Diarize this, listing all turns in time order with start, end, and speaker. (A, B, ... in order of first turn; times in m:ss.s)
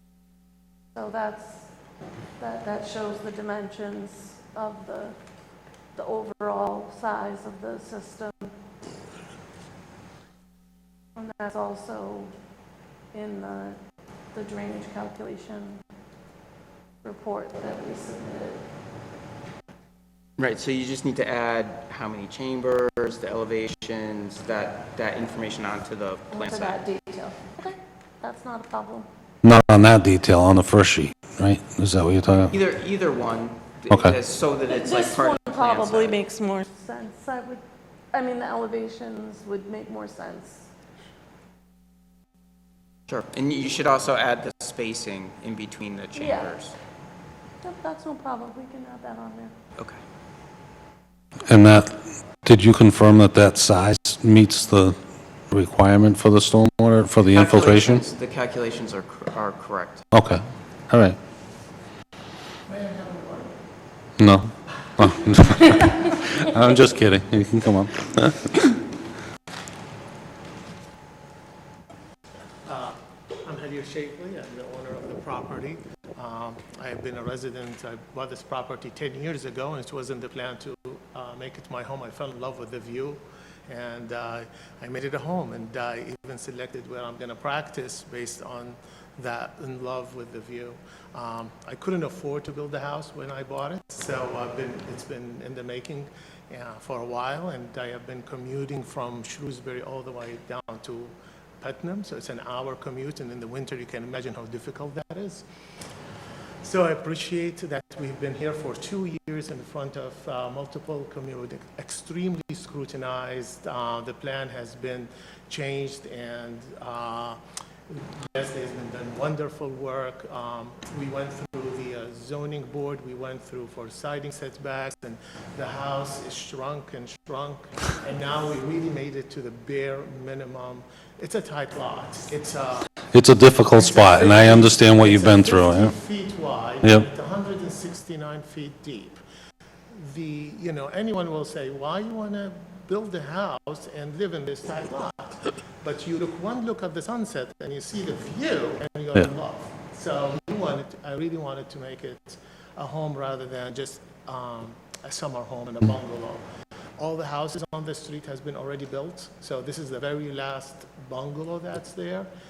0:00.9-0:01.7 A
0:02.4-0:05.2 A
0:06.0-0:08.6 A
0:11.2-0:12.3 A
0:13.1-0:13.8 A
0:14.3-0:15.8 A
0:17.0-0:18.6 A
0:20.4-0:26.8 B
0:26.3-0:29.1 A
0:29.4-0:32.5 C
0:32.5-0:36.2 B
0:33.9-0:34.2 C
0:34.7-0:37.6 A
0:38.1-0:40.7 A
0:43.1-0:46.8 B
0:46.2-0:46.5 A
0:47.6-0:49.5 A
0:51.5-0:55.0 C
0:55.5-0:58.0 C
0:57.3-1:00.0 B
1:00.1-1:01.2 C
1:02.7-1:03.5 D
1:04.2-1:08.5 C
1:12.7-1:45.5 D
1:46.6-2:12.9 D
2:13.1-2:15.9 C
2:13.7-2:19.2 D
2:19.9-2:36.4 D
2:37.0-2:42.3 D